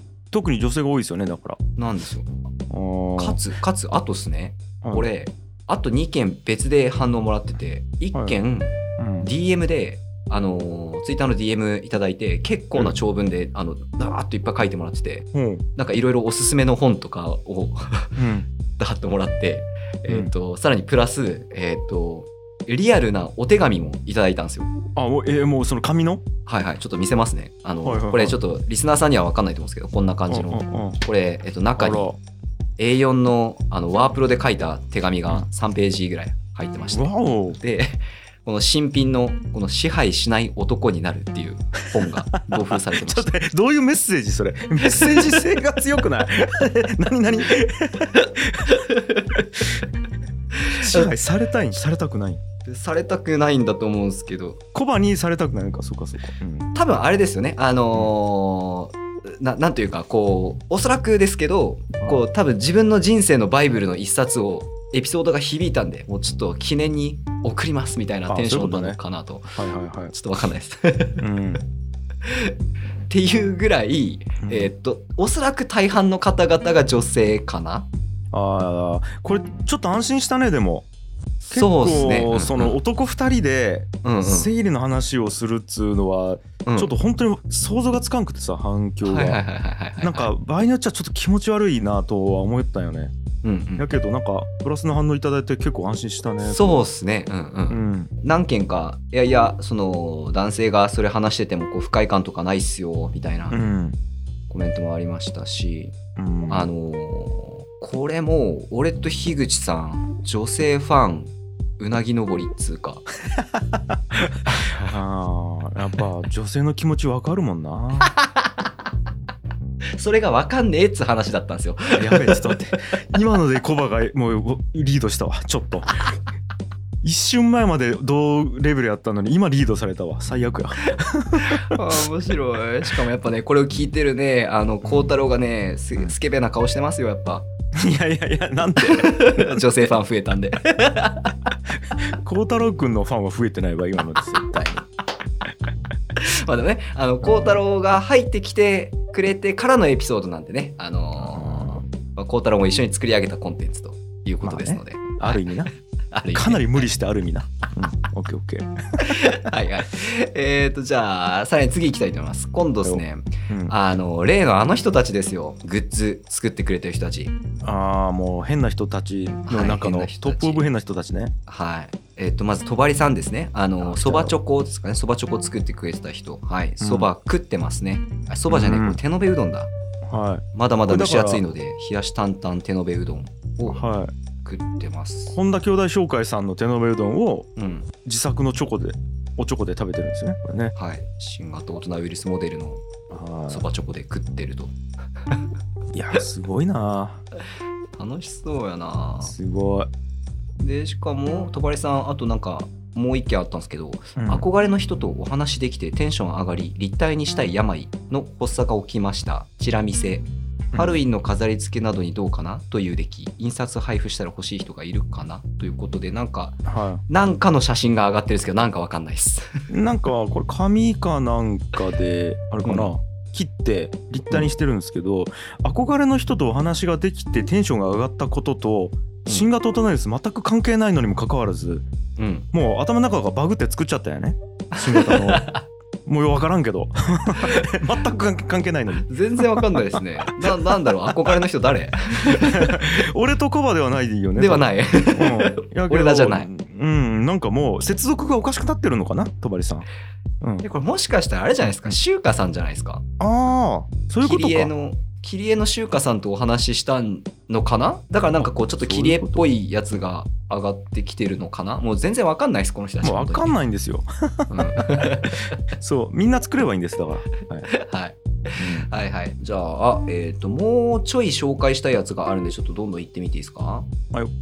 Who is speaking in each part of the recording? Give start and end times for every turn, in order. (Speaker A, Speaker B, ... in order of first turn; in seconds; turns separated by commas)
Speaker A: 0.3-1.6, Speaker B: 1.8-2.3, Speaker A: 2.7-3.4, Speaker B: 3.2-18.2, Speaker A: 4.8-5.1, Speaker A: 9.0-9.3, Speaker A: 15.3-15.6, Speaker A: 18.2-18.5, Speaker B: 18.8-24.7, Speaker A: 25.0-26.2, Speaker B: 26.5-32.1, Speaker A: 27.8-28.4, Speaker A: 30.3-31.0, Speaker A: 31.8-32.2, Speaker B: 32.8-43.3, Speaker A: 36.9-37.6, Speaker A: 42.0-48.8, Speaker B: 44.8-45.4, Speaker B: 48.6-49.7, Speaker B: 50.5-51.1, Speaker A: 50.7-52.4, Speaker B: 52.7-54.6, Speaker A: 54.7-56.7, Speaker B: 56.8-69.6, Speaker A: 68.3-69.0, Speaker A: 69.5-70.1, Speaker B: 70.1-71.2, Speaker A: 71.2-71.6, Speaker B: 72.2-72.5, Speaker B: 73.1-77.9, Speaker A: 74.4-74.7, Speaker A: 78.3-80.9, Speaker B: 81.4-82.8, Speaker A: 81.5-89.4, Speaker B: 84.0-84.5, Speaker B: 86.7-86.9, Speaker B: 89.0-90.3, Speaker A: 90.0-93.1, Speaker B: 93.4-93.9, Speaker A: 93.8-96.8, Speaker B: 96.4-103.6, Speaker A: 97.7-98.1, Speaker A: 103.5-104.0, Speaker B: 104.5-106.0, Speaker A: 106.2-106.7, Speaker B: 106.5-113.1, Speaker A: 113.5-118.1, Speaker B: 114.5-115.0, Speaker B: 118.0-118.5, Speaker B: 120.0-122.6, Speaker A: 122.0-126.1, Speaker A: 127.0-131.8, Speaker B: 131.3-137.5, Speaker A: 137.8-139.6, Speaker B: 138.8-141.4, Speaker A: 141.9-144.8, Speaker B: 146.2-156.9, Speaker A: 151.2-151.8, Speaker A: 154.4-155.7, Speaker A: 156.3-159.4, Speaker B: 159.0-167.3, Speaker A: 162.8-163.7, Speaker A: 167.6-171.3, Speaker B: 169.5-170.7, Speaker B: 171.5-179.7, Speaker A: 173.8-174.4, Speaker A: 176.8-177.1, Speaker A: 178.5-179.0, Speaker A: 180.1-181.4, Speaker B: 180.5-183.8, Speaker A: 183.7-184.1, Speaker B: 184.4-185.4, Speaker A: 185.3-187.5, Speaker B: 187.6-187.9, Speaker A: 188.0-190.7, Speaker B: 190.8-192.8, Speaker A: 193.1-193.7, Speaker B: 193.5-194.7, Speaker A: 195.9-197.2, Speaker B: 197.9-199.4, Speaker A: 199.2-199.9, Speaker B: 200.6-219.7, Speaker A: 204.2-204.4, Speaker A: 210.7-211.0, Speaker A: 216.7-217.0, Speaker A: 219.7-231.9, Speaker B: 222.6-222.9, Speaker B: 232.2-232.5, Speaker A: 232.5-235.5, Speaker B: 234.7-235.6, Speaker A: 236.1-241.4, Speaker B: 239.1-243.0, Speaker A: 242.2-249.9, Speaker B: 244.4-246.5, Speaker B: 250.6-253.0, Speaker A: 253.2-254.7, Speaker B: 254.2-263.6, Speaker A: 258.4-259.4, Speaker A: 263.0-267.7, Speaker B: 264.5-265.6, Speaker B: 267.7-273.9, Speaker A: 268.6-268.9